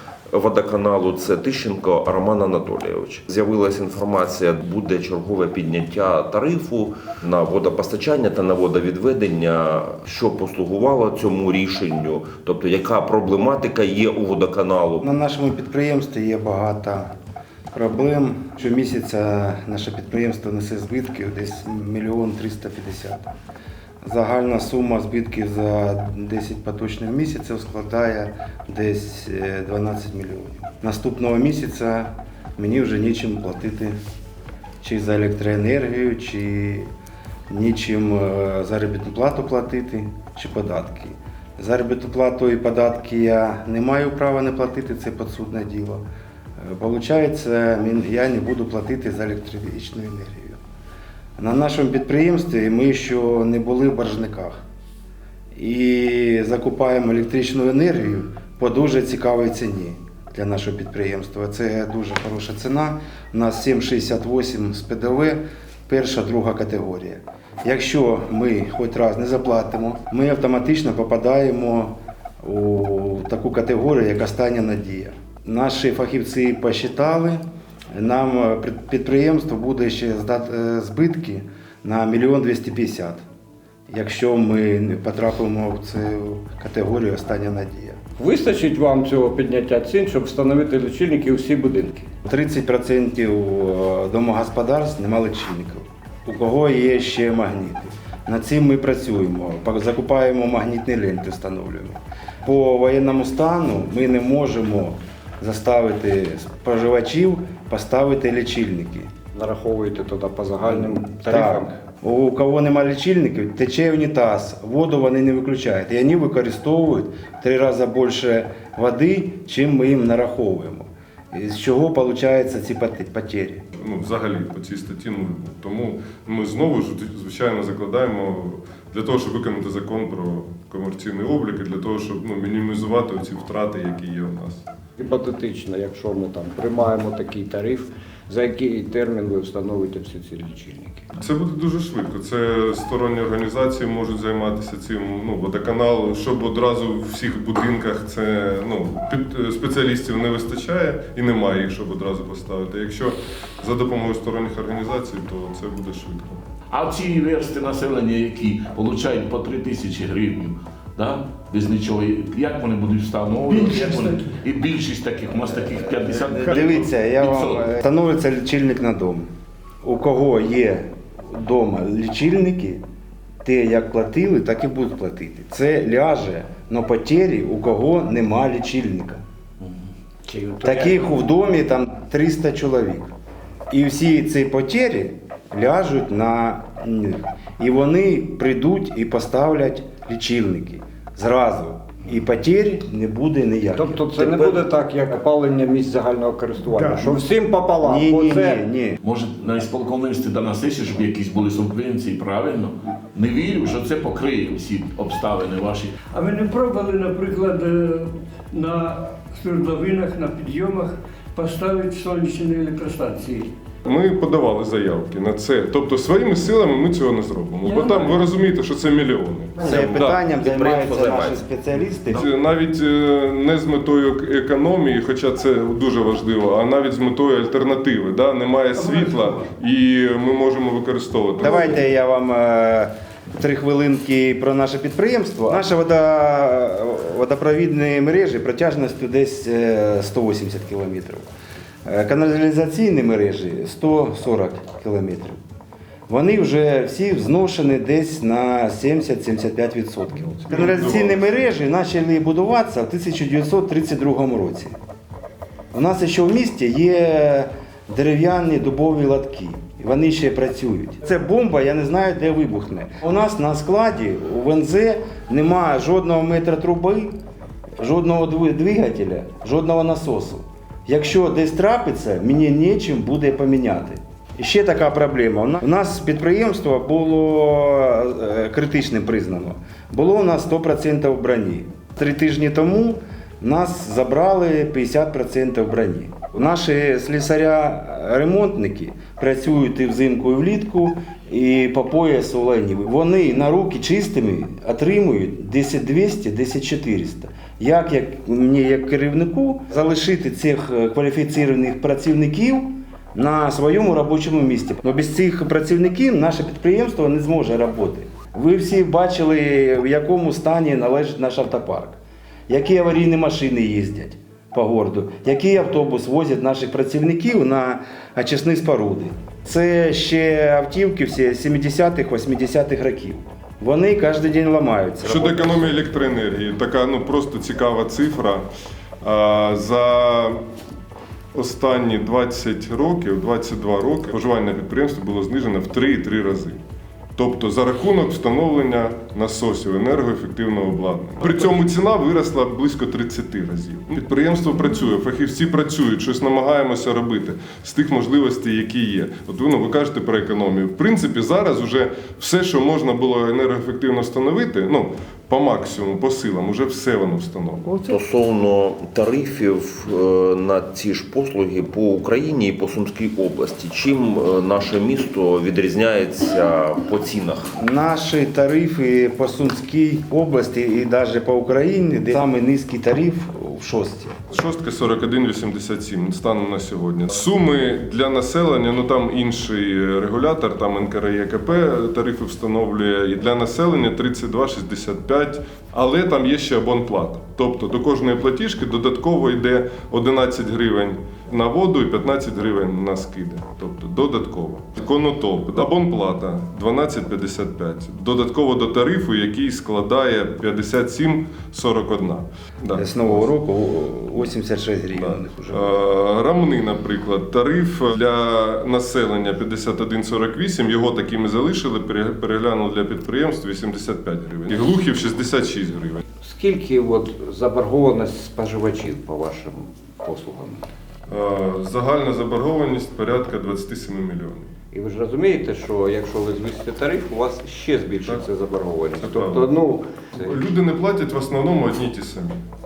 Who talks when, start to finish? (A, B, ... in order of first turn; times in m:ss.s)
0:00.3-0:15.0 A
0:15.0-0:17.1 B
0:17.7-0:23.3 B
0:24.0-0:34.0 B
0:34.8-0:36.9 B
0:37.5-0:46.0 B
0:46.6-0:50.6 B
0:51.4-0:54.6 B
0:55.5-1:17.4 B
1:17.9-1:23.2 B
1:23.9-1:28.0 B
1:28.2-1:32.1 C
1:32.2-1:49.1 B
1:49.3-1:51.8 C
1:50.6-2:03.6 B
2:03.8-2:14.6 D
2:15.0-2:21.1 C
2:21.1-2:36.4 D
2:36.7-2:47.6 E
2:43.5-2:44.3 F
2:46.0-2:49.3 B
2:49.8-2:52.8 B
2:53.4-2:59.2 B
3:00.3-3:01.1 C
3:00.6-3:03.1 B
3:03.7-3:14.1 B
3:13.7-3:18.6 C
3:14.3-3:14.6 A
3:17.8-3:19.0 B
3:19.1-3:25.8 E
3:26.1-3:33.5 F
3:33.8-3:40.1 D
3:37.6-3:38.1 F
3:39.6-3:42.3 B
3:39.7-3:41.4 A
3:42.1-3:51.8 D
3:48.8-3:49.5 F
3:51.4-4:01.3 B
4:01.8-4:05.4 B
4:06.1-4:14.8 B
4:10.5-4:11.3 D
4:15.7-4:27.1 B
4:27.8-5:25.8 B
5:25.0-5:28.4 D
5:29.0-5:30.4 D
5:31.3-5:36.6 D
5:37.2-5:57.8 D
5:57.8-6:07.4 A
6:07.6-6:14.2 B
6:14.3-6:43.2 D
6:42.8-6:45.8 B
6:45.0-6:56.0 D
6:56.2-7:00.7 C
7:01.1-7:04.5 D
7:04.7-7:10.4 C
7:09.0-7:09.5 D
7:10.2-7:12.4 D